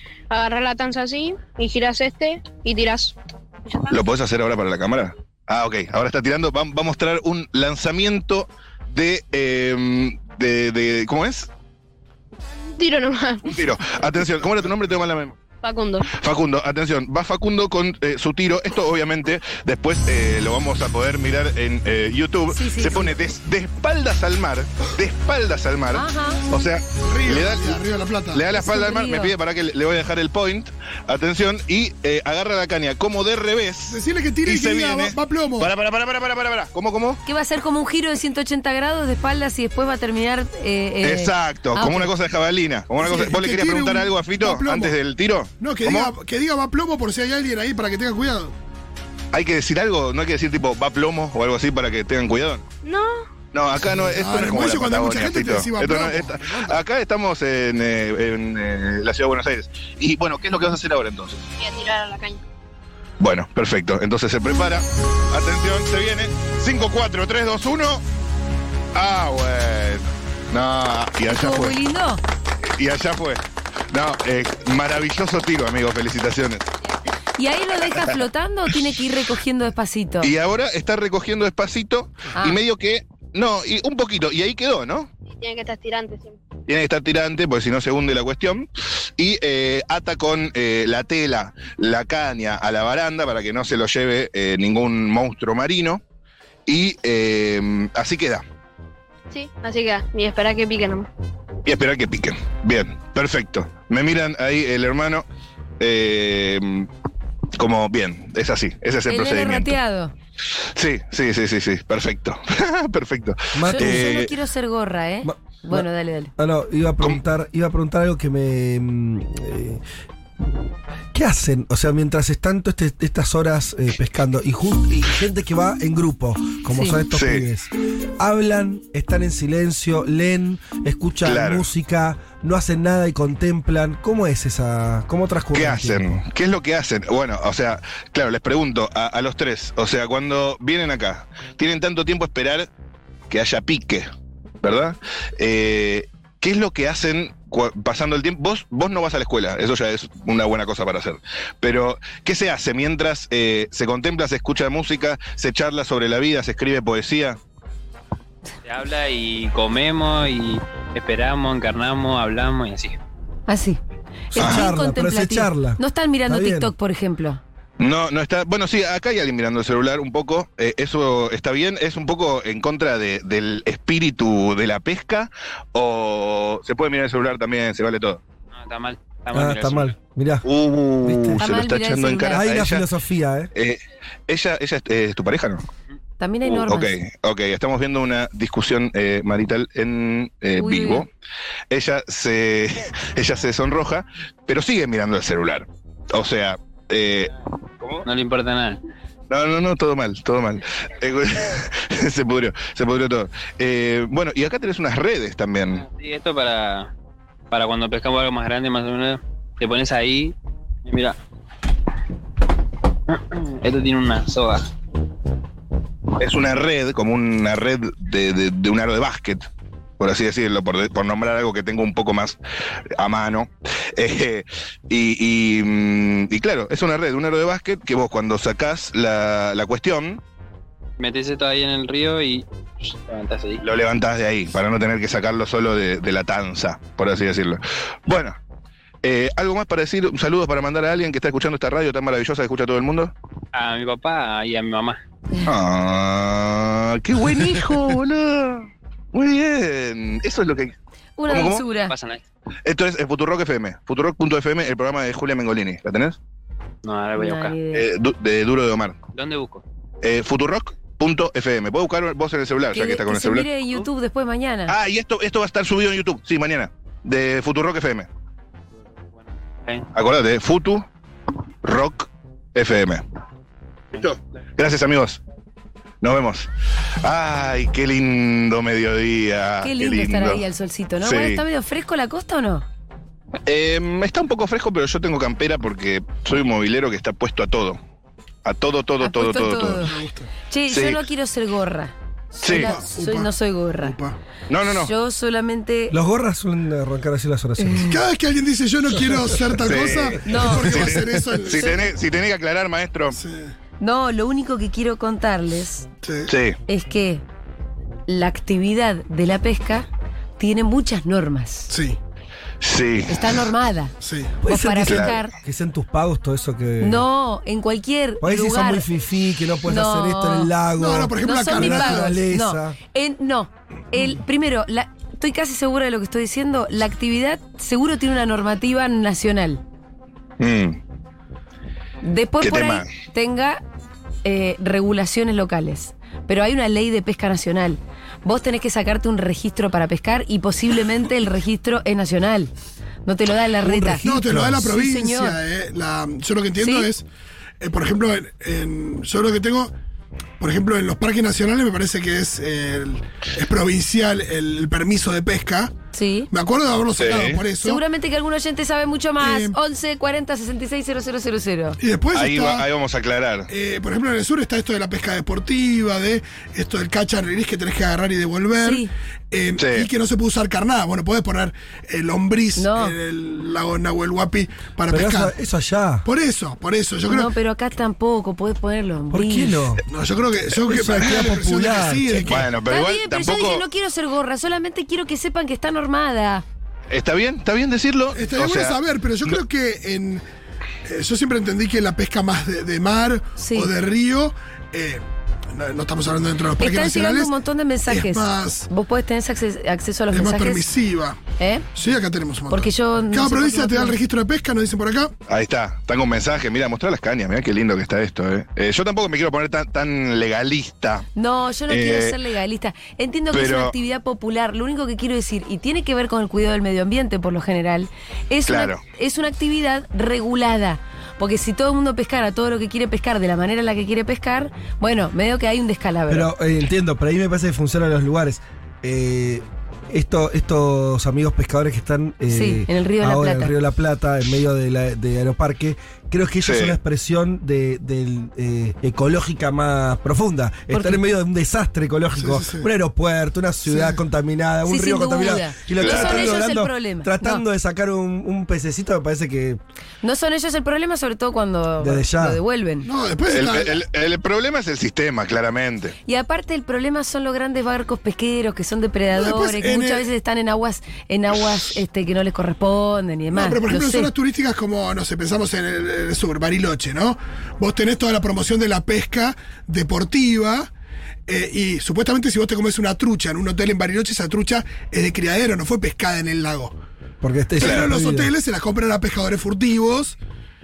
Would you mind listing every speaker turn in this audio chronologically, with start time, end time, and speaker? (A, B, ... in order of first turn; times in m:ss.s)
0:00.3-0:04.0 A
0:03.9-0:11.5 B
0:12.7-0:13.6 A
0:13.4-0:15.4 B
0:15.6-0:16.1 A
0:16.1-0:27.8 B
0:22.5-0:23.2 C
0:25.9-0:26.4 C
0:27.0-0:28.5 D
0:28.3-0:37.2 B
0:28.5-0:29.3 C
0:33.9-0:35.7 D
0:37.2-0:42.1 C
0:41.0-0:46.1 B
0:43.0-0:45.0 D
0:45.6-0:48.5 D
0:49.3-0:52.6 B
0:52.8-0:53.2 A
0:53.5-1:01.4 B
0:53.9-0:56.8 D
1:01.6-1:02.4 A
1:03.2-1:08.0 B
1:08.9-1:11.8 B
1:11.3-1:12.2 C
1:12.6-1:16.7 B
1:17.4-1:20.3 C
1:17.8-1:18.2 B
1:20.2-1:25.1 B
1:25.2-1:26.4 A
1:26.7-1:36.0 B
1:36.6-1:38.4 B
1:39.3-1:41.1 A
1:41.6-1:45.2 B
1:45.8-1:46.9 B
1:47.6-1:49.8 B
1:49.1-1:50.1 C
1:50.5-1:54.3 B
1:53.5-1:54.1 E
1:53.7-1:56.3 C
1:55.2-1:59.8 E
2:01.1-2:16.2 E
2:06.7-2:07.0 C
2:07.1-2:07.5 B
2:11.2-2:11.7 B
2:15.5-2:22.7 B
2:23.3-2:24.1 B
2:24.6-2:37.4 B
2:38.6-2:43.0 F
2:43.5-2:43.8 C
2:44.3-2:47.4 C
2:44.3-2:46.7 E
2:44.4-2:44.7 B
2:47.8-2:58.2 B
2:58.5-3:00.0 F
2:59.3-3:00.5 E
3:00.4-3:02.8 B
3:01.0-3:01.4 E
3:01.4-3:02.4 C
3:02.3-3:03.5 E
3:03.5-3:05.6 B
3:06.2-3:06.9 C
3:06.4-3:11.1 B
3:10.6-3:11.0 C
3:11.7-3:18.0 B
3:18.0-3:18.8 F
3:19.3-3:25.8 B
3:25.7-3:26.9 F
3:27.5-3:31.2 F
3:33.1-3:34.7 F
3:36.2-3:39.4 B
3:40.0-3:42.4 B
3:43.0-3:50.2 B
3:51.0-3:53.6 F
3:53.6-3:58.4 B
3:59.0-4:03.1 B
4:03.5-4:05.0 F
4:05.4-4:10.7 B
4:11.2-4:11.9 C
4:11.3-4:11.6 B
4:11.9-4:12.2 F
4:12.6-4:16.2 B
4:16.8-4:17.6 F
4:17.2-4:17.9 C
4:17.7-4:19.0 B
4:19.1-4:19.6 F
4:20.0-4:23.5 B
4:22.7-4:24.8 C
4:24.7-4:28.1 B
4:29.2-4:29.9 F
4:29.9-4:30.8 B
4:31.6-4:33.0 B
4:33.9-4:35.2 B
4:36.0-4:36.5 B
4:37.0-4:40.4 B
4:39.6-4:42.6 C
4:41.0-4:41.4 B
4:43.4-4:47.8 B
4:48.4-4:49.9 B
4:49.0-4:49.9 C
4:49.8-4:50.3 D
4:50.5-4:54.0 C
4:50.7-4:51.0 B
4:52.4-4:52.7 B
4:52.5-4:54.2 D
4:54.5-4:54.9 B
4:54.6-4:56.0 C
4:55.9-4:58.0 E
4:57.6-4:58.0 C
4:57.9-5:01.8 D
4:59.6-5:03.2 B
5:00.2-5:01.0 C
5:01.5-5:01.8 C
5:03.1-5:03.5 D
5:03.8-5:05.9 C
5:06.0-5:06.3 D
5:06.3-5:06.6 B
5:06.7-5:07.2 C
5:08.1-5:09.9 C
5:10.4-5:11.7 C
5:11.7-5:12.0 D
5:12.6-5:13.4 B
5:13.0-5:13.9 C
5:14.0-5:14.4 D
5:14.4-5:17.0 E
5:14.4-5:15.3 C
5:14.9-5:15.2 B
5:16.8-5:18.9 C
5:18.2-5:22.8 E
5:19.6-5:20.5 C
5:20.8-5:22.2 D
5:21.2-5:29.6 C
5:30.4-5:30.8 B
5:32.0-5:33.6 C
5:32.4-5:32.9 B
5:34.2-5:42.5 C
5:43.0-5:45.4 C
5:43.6-5:44.7 E
5:44.0-5:47.0 D
5:46.6-5:46.9 C
5:47.6-5:49.7 D
5:50.4-5:55.7 D
5:55.9-5:56.3 C
5:56.3-5:57.8 D
5:57.0-5:57.4 B
5:57.6-6:01.8 C
5:59.2-5:59.6 D
6:01.8-6:02.7 D
6:02.1-6:03.5 B
6:03.5-6:15.3 D
6:08.6-6:08.9 C
6:09.6-6:09.9 B
6:12.6-6:13.0 C
6:14.9-6:16.1 E
6:16.0-6:17.3 D
6:17.1-6:19.6 C
6:19.1-6:19.8 E
6:19.9-6:22.5 D
6:20.4-6:22.4 E
6:22.2-6:23.6 B
6:22.6-6:26.4 C
6:26.9-6:29.4 B
6:28.1-6:30.2 D
6:30.8-6:37.3 D
6:33.4-6:33.7 C
6:36.6-6:40.6 C
6:37.9-6:38.7 D
6:40.1-6:41.2 D
6:41.4-6:41.7 C
6:41.7-6:45.1 D
6:42.5-6:44.0 C
6:45.3-6:51.0 B
6:51.2-7:06.3 C
6:51.7-6:52.2 B
6:53.3-6:53.7 B
6:58.4-6:58.8 B
7:06.1-7:29.6 E
7:12.3-7:13.5 C
7:16.4-7:16.7 B
7:20.7-7:21.0 C
7:22.1-7:22.7 D
7:23.7-7:24.0 D
7:24.6-7:27.4 C
7:25.8-7:26.3 B
7:30.0-7:32.9 C
7:31.8-7:32.4 E
7:32.8-7:33.8 D
7:33.3-7:35.9 B
7:36.0-7:44.1 C
7:39.1-7:40.1 D
7:43.3-7:50.7 D
7:51.3-7:56.8 D
7:57.2-7:58.3 E
7:57.6-8:00.2 D
7:57.6-7:57.9 B